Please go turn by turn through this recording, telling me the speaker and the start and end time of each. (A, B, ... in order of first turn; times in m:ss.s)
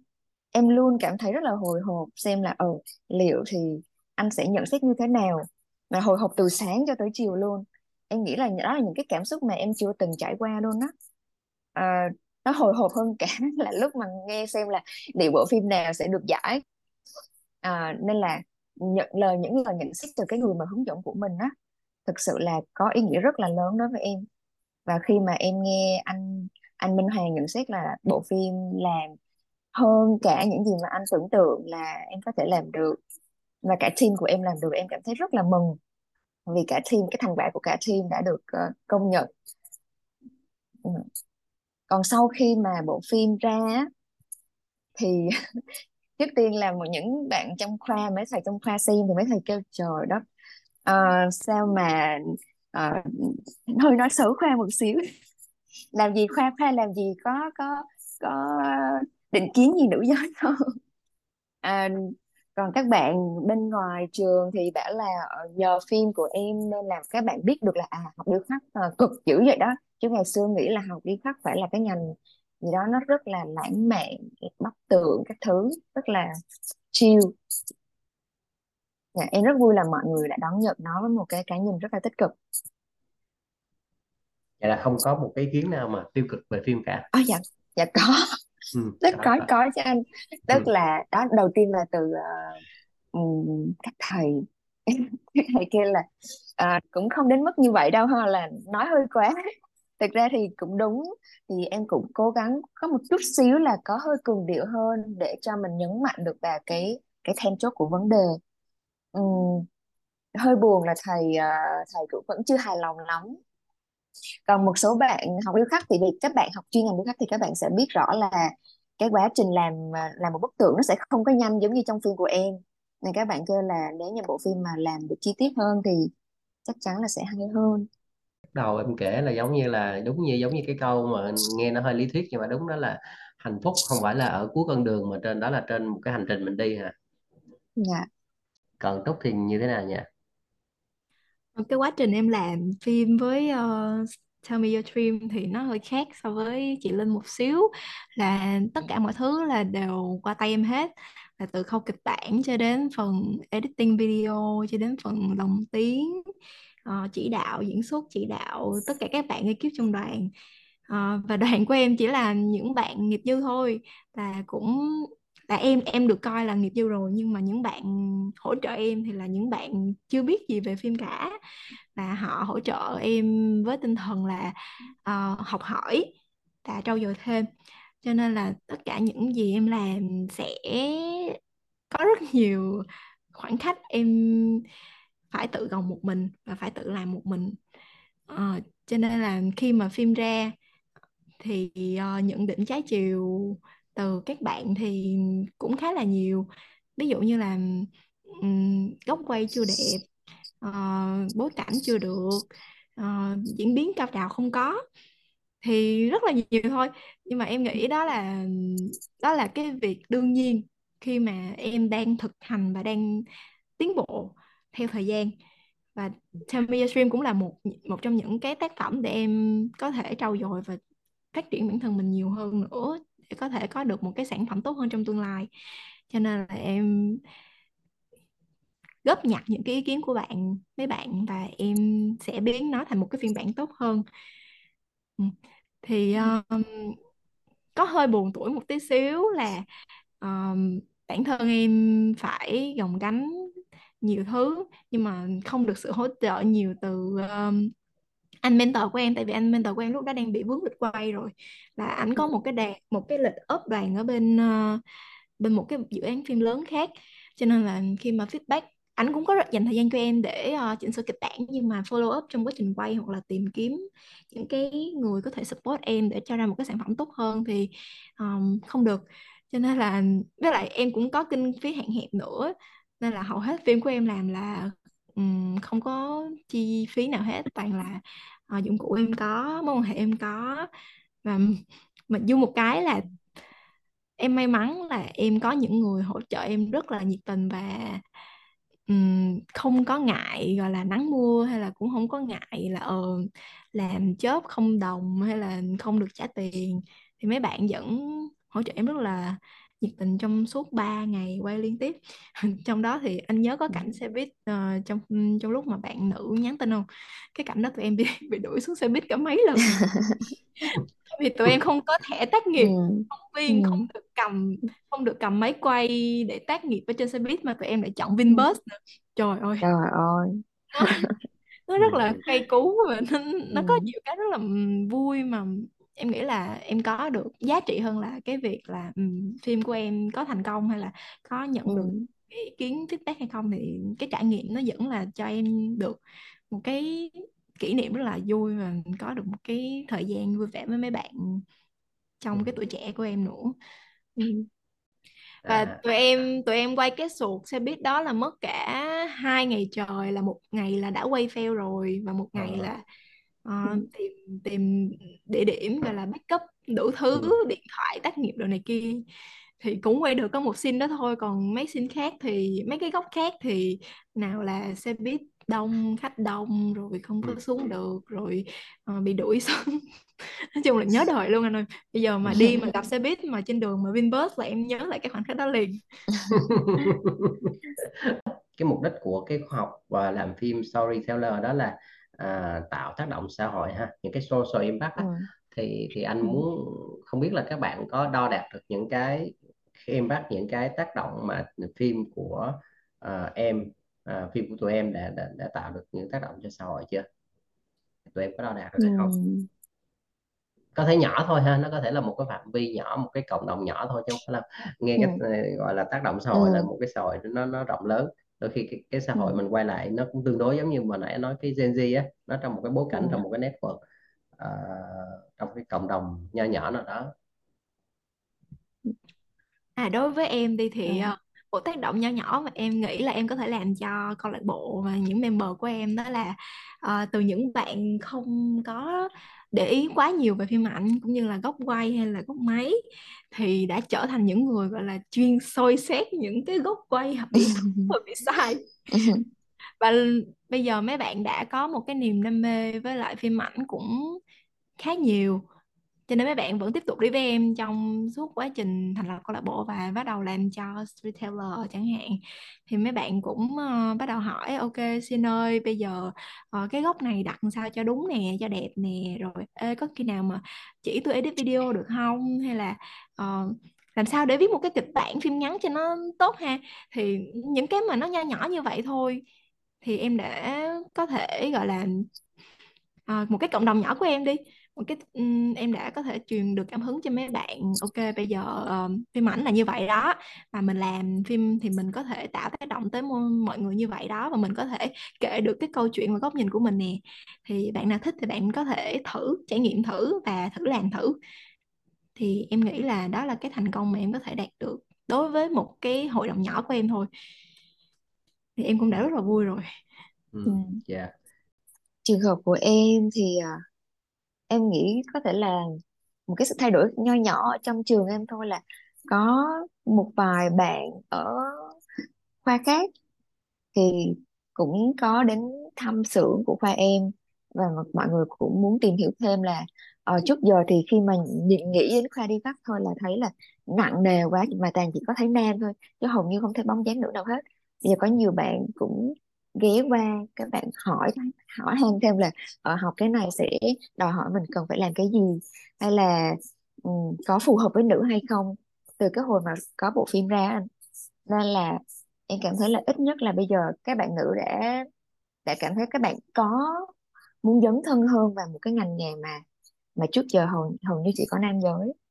0:00.5-0:10.9 A
0:11.7-0:16.6 A
0:17.6-0:21.5 A
0:22.0-0:24.2 A
0:24.9-0:29.1 A
0:29.7-0:33.0 A
0:33.6-0:35.8 A
0:36.5-0:39.3 A
0:41.9-0:43.9 A
0:45.0-0:45.3 A
0:46.2-0:50.2 A
0:50.8-0:55.0 A
0:55.9-1:00.6 A
1:01.6-1:16.3 A
1:16.9-1:17.3 A
1:19.1-1:22.3 A
1:24.6-1:27.1 B
1:27.1-1:28.4 A
1:28.7-1:29.4 B
1:29.0-1:32.6 A
1:33.1-1:36.0 A
1:36.6-1:39.3 A
1:40.0-1:48.4 A
1:49.1-1:49.7 A
1:50.4-1:53.4 A
1:54.5-2:06.1 A
2:06.6-2:07.9 A
2:08.5-2:16.9 B
2:17.8-2:18.1 A
2:18.8-2:20.1 B
2:21.6-2:36.3 C
2:36.8-2:40.3 C
2:40.9-2:51.3 C
2:52.0-2:56.1 C
2:56.6-2:57.5 C
2:58.0-3:01.4 C
3:01.9-3:04.6 C
3:05.3-3:07.6 C
3:08.3-3:10.5 C
3:11.4-3:20.0 C
3:20.6-3:22.4 C
3:23.0-3:24.8 C
3:25.6-3:33.2 C
3:33.8-3:35.3 C
3:36.0-3:40.8 C
3:41.3-3:45.5 C
3:46.1-3:47.2 C
3:49.0-3:54.0 C
3:55.2-3:57.0 C
3:57.8-3:59.6 C
4:00.2-4:03.5 C
4:04.0-4:07.7 C
4:08.4-4:14.8 C
4:15.4-4:40.7 C
4:41.2-4:43.0 C
4:44.2-4:48.0 C
4:48.9-5:09.8 C
5:09.8-5:10.2 A
5:11.1-5:19.6 C
5:12.6-5:13.8 A
5:19.6-5:21.1 A
5:20.7-5:21.1 C
5:21.7-5:36.0 C
5:21.8-5:22.2 B
5:23.5-5:23.8 A
5:31.7-5:32.1 A
5:36.5-5:41.4 C
5:42.2-5:43.5 C
5:44.2-5:44.5 A
5:45.4-5:45.8 B
5:45.5-5:52.8 C
5:52.3-5:52.7 B
5:53.4-5:59.0 C
5:59.6-6:15.8 C
6:16.3-6:37.0 B
6:25.0-6:25.2 A
6:38.1-6:39.1 B
6:38.8-6:39.5 A
6:40.7-6:53.8 B
6:46.3-6:46.7 A
6:52.9-6:53.2 A
6:54.4-6:57.1 B
6:59.8-7:12.8 C
7:00.9-7:01.1 A
7:13.3-7:18.7 C
7:17.5-7:17.9 A
7:18.9-7:19.2 A
7:19.8-7:24.2 C
7:24.8-7:25.4 C
7:26.1-7:49.2 C
7:49.8-7:52.1 C
7:53.1-8:11.2 C
8:12.2-8:17.1 C
8:18.6-8:19.7 C
8:20.3-8:21.1 B
8:20.4-8:20.8 A
8:22.0-8:23.6 A
8:24.5-8:31.8 A
8:32.4-8:32.9 A
8:33.7-9:00.6 A
9:01.3-9:04.8 A
9:05.4-9:06.9 A
9:07.4-9:09.4 A
9:10.0-9:11.9 A